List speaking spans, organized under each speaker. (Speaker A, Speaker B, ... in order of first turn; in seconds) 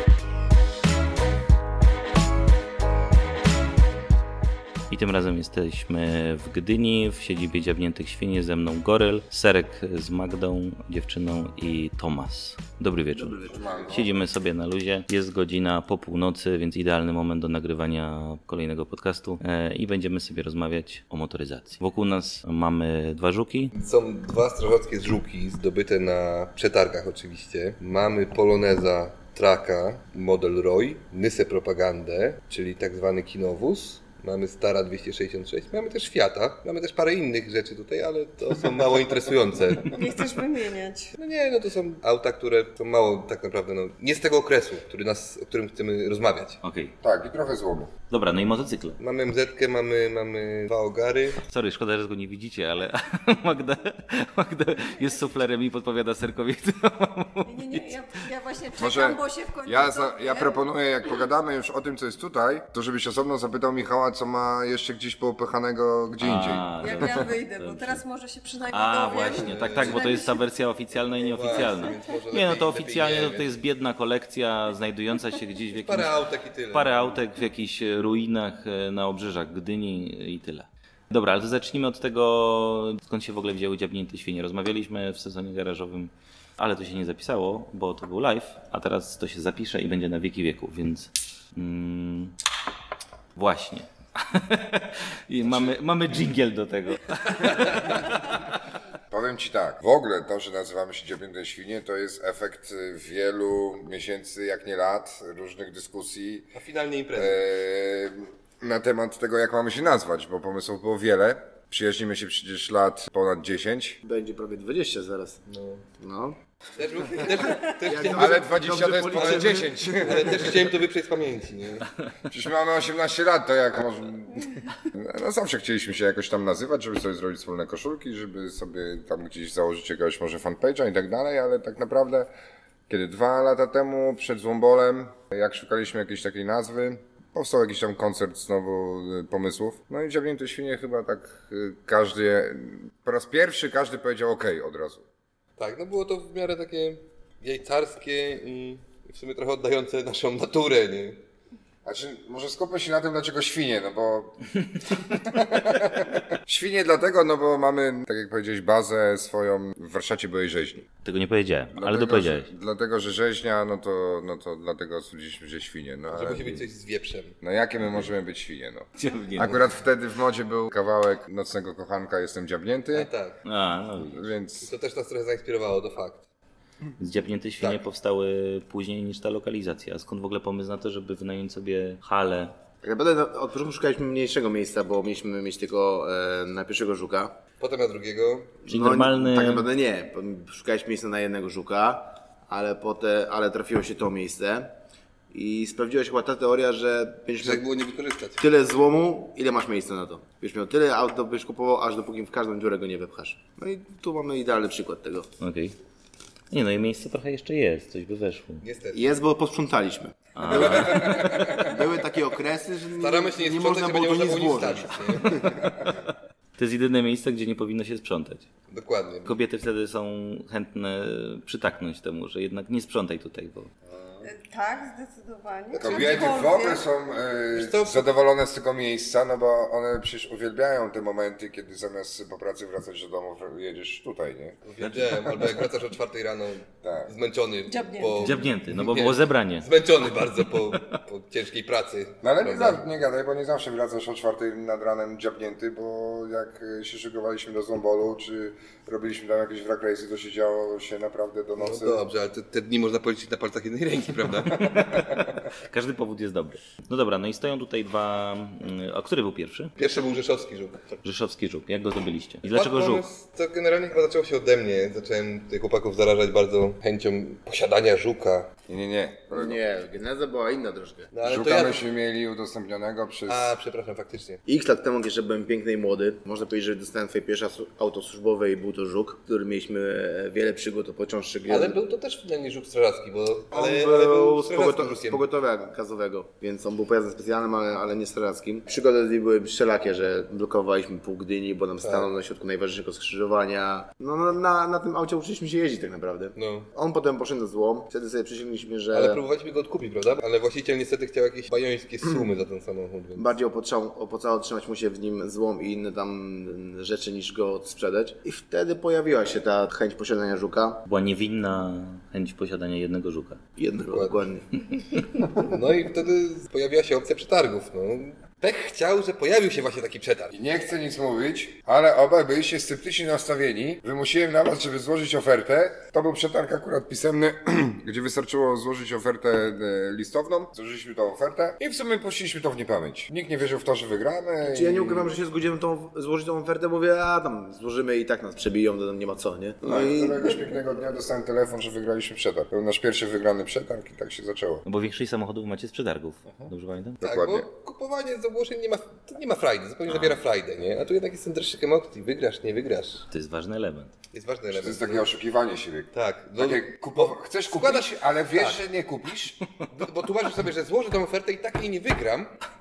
Speaker A: 4.9-23.7, 46.6-47.0, 48.1-49.0, 51.5-58.2, 66.2-68.0, 68.7-76.1, 76.7-92.3, 93.3-97.9, 161.0-162.5, 167.8-168.1, 169.0-169.7, 173.4-174.3, 177.0-182.5, 188.7-189.7, 205.4-205.8, 206.5-208.7, 210.3-211.3, 215.3-216.0, 216.6-218.5, 219.2-223.7, 234.8-235.7, 238.2-239.7, 254.6-259.7, 261.0-263.1, 310.9-313.4, 344.6-347.0, 349.9-350.2, 353.1-353.9
Speaker B: 13.1-13.9, 114.0-115.4, 116.0-116.4, 117.3-120.3, 182.8-187.4, 188.7-194.7, 195.3-197.7, 198.4-205.3, 208.9-215.6, 269.3-271.1, 274.5-281.8, 283.5-299.2, 303.2-310.8, 313.6-314.5, 334.4-340.4
Speaker C: 13.5-14.2, 47.0-47.9, 58.8-66.7, 99.1-106.5, 107.2-114.0, 118.0-120.8, 122.3-132.3, 132.9-145.1, 151.8-154.5, 155.0-160.9, 161.7-166.7, 167.4-173.1, 174.0-174.7, 210.7-211.7, 223.9-224.3, 225.7-234.6, 236.8-237.1, 242.2-252.0, 268.7-269.6, 271.2-273.5, 320.3-335.2, 339.6-344.6, 346.3-347.5, 354.5-359.4
Speaker D: 23.8-40.0, 41.2-46.6, 49.0-51.4, 69.4-70.1, 71.1-73.6, 75.7-77.2, 97.6-98.0, 106.5-107.4, 115.5-115.8, 116.8-118.6, 119.1-121.9, 145.6-151.2, 166.1-167.3, 172.9-173.4, 174.6-176.2, 187.6-188.6, 197.4-198.5, 208.6-209.2, 212.9-215.5, 218.7-219.4, 227.5-228.1, 234.7-242.8, 251.6-254.7, 259.8-260.8, 262.5-268.5, 271.1-271.8, 273.3-274.4, 281.5-285.3, 291.8-292.1, 296.4-296.7, 298.9-303.3, 313.9-314.2, 315.4-320.4, 347.0-353.1, 354.1-355.1, 355.9-358.6, 359.7-362.4
Speaker E: 39.9-41.1, 57.5-60.5, 66.8-70.5, 224.2-226.8, 237.7-238.5